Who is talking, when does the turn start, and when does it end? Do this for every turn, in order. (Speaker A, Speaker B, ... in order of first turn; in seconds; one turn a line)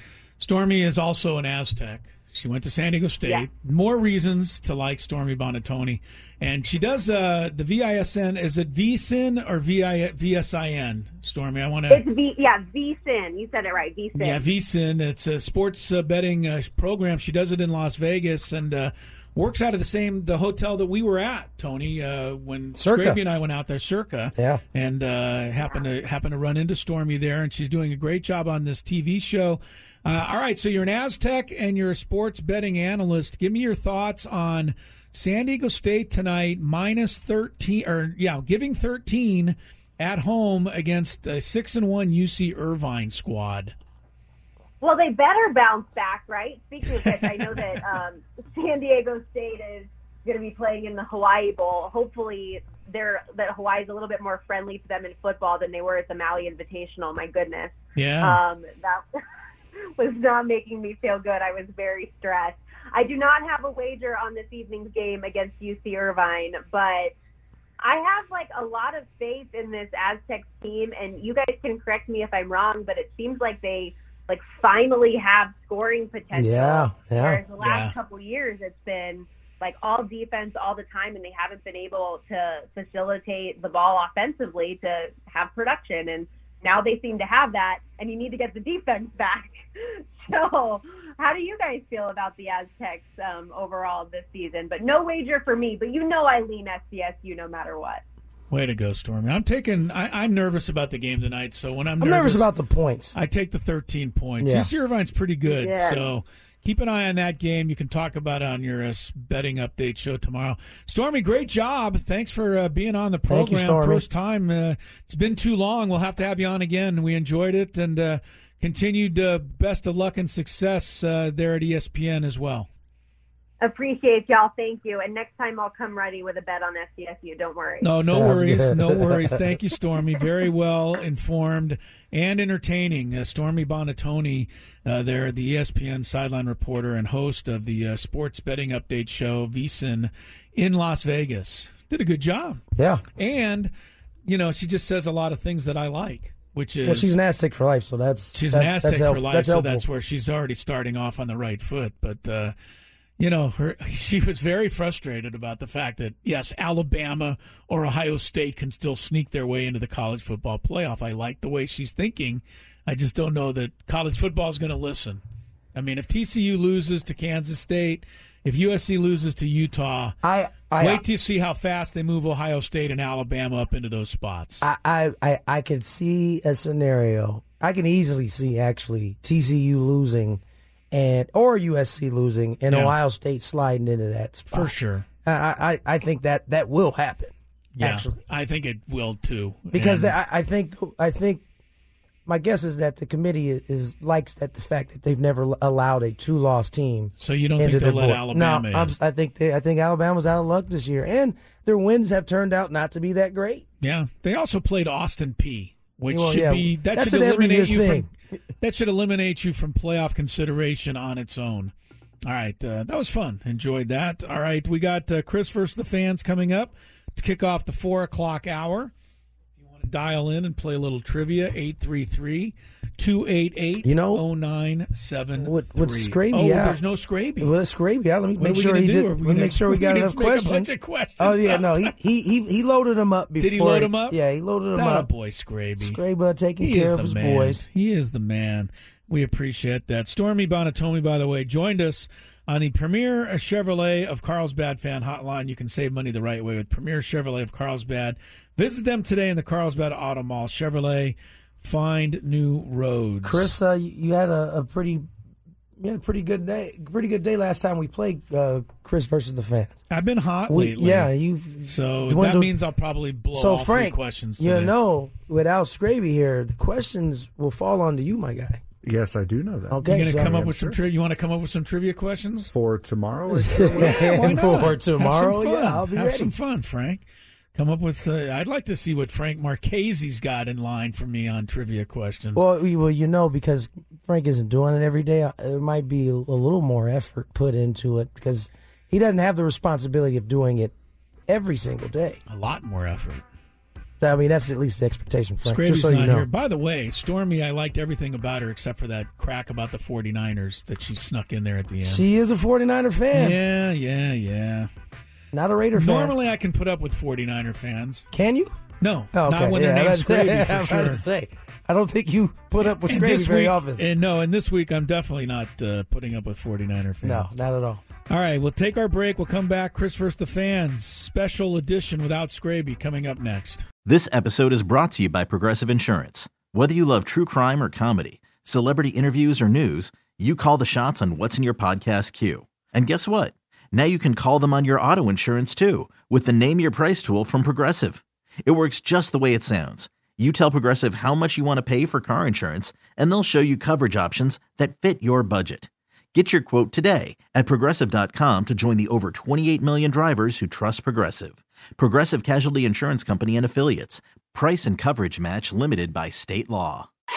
Speaker A: 0.4-12.0
Speaker B: 11.9-14.4
Speaker A: 14.1-43.7
Speaker C: 22.8-23.2
Speaker B: 44.8-59.0
Speaker A: 47.1-47.4
Speaker A: 57.9-58.4
Speaker B: 60.0-67.1
Speaker B: 67.8-98.0
Speaker C: 76.3-77.4
Speaker A: 77.6-77.9
Speaker A: 98.5-102.5
Speaker C: 102.0-103.1
Speaker A: 103.1-122.7
Speaker C: 104.4-104.7
Speaker B: 105.5-106.1
Speaker C: 113.3-114.0
Speaker B: 123.6-128.1
Speaker A: 127.8-142.6
Speaker C: 128.1-129.3
Speaker C: 142.8-143.0
Speaker A: 143.2-143.7
Speaker A: 144.2-147.2
Speaker C: 146.8-149.8
Speaker A: 148.3-152.5
Speaker A: 153.2-165.2
Speaker A: 165.7-170.2
Speaker C: 170.2-171.0
Speaker A: 170.8-174.6
Speaker C: 174.6-180.4
Speaker C: 180.9-184.7
Speaker A: 182.7-182.9
Speaker A: 184.5-185.1
Speaker C: 185.2-188.1
Speaker A: 187.8-190.1
Speaker C: 189.7-191.4
Speaker C: 192.2-203.6
Speaker A: 197.2-198.9
Speaker A: 203.8-208.1
Speaker C: 206.1-208.1
Speaker A: 208.6-211.7
Speaker A: 212.2-218.9
Speaker A: 219.6-227.5
Speaker C: 223.8-224.2
Speaker C: 225.4-226.8
Speaker C: 227.4-235.1
Speaker A: 228.4-231.9
Speaker A: 233.4-234.2
Speaker A: 234.7-236.0
Speaker C: 235.8-237.6
Speaker A: 236.6-253.5
Speaker C: 253.2-255.1
Speaker C: 255.8-259.7
Speaker A: 259.9-261.1
Speaker C: 260.5-262.5
Speaker A: 261.6-264.7
Speaker C: 263.3-268.6
Speaker D: 268.8-270.8
Speaker C: 269.7-270.4
Speaker A: 269.8-272.5
Speaker D: 272.5-274.7
Speaker C: 273.4-276.3
Speaker A: 273.5-277.0
Speaker A: 277.5-282.4
Speaker C: 282.4-290.7
Speaker C: 291.3-292.2
Speaker A: 292.3-293.2
Speaker C: 294.0-296.2
Speaker A: 295.4-302.1
Speaker C: 301.9-303.4
Speaker A: 303.1-304.7
Speaker C: 305.3-306.1
Speaker A: 305.7-308.1
Speaker C: 308.1-308.5
Speaker A: 308.8-311.0
Speaker C: 309.1-313.8
Speaker A: 312.6-317.3
Speaker C: 317.0-317.8
Speaker A: 318.1-323.6
Speaker E: 323.8-356.9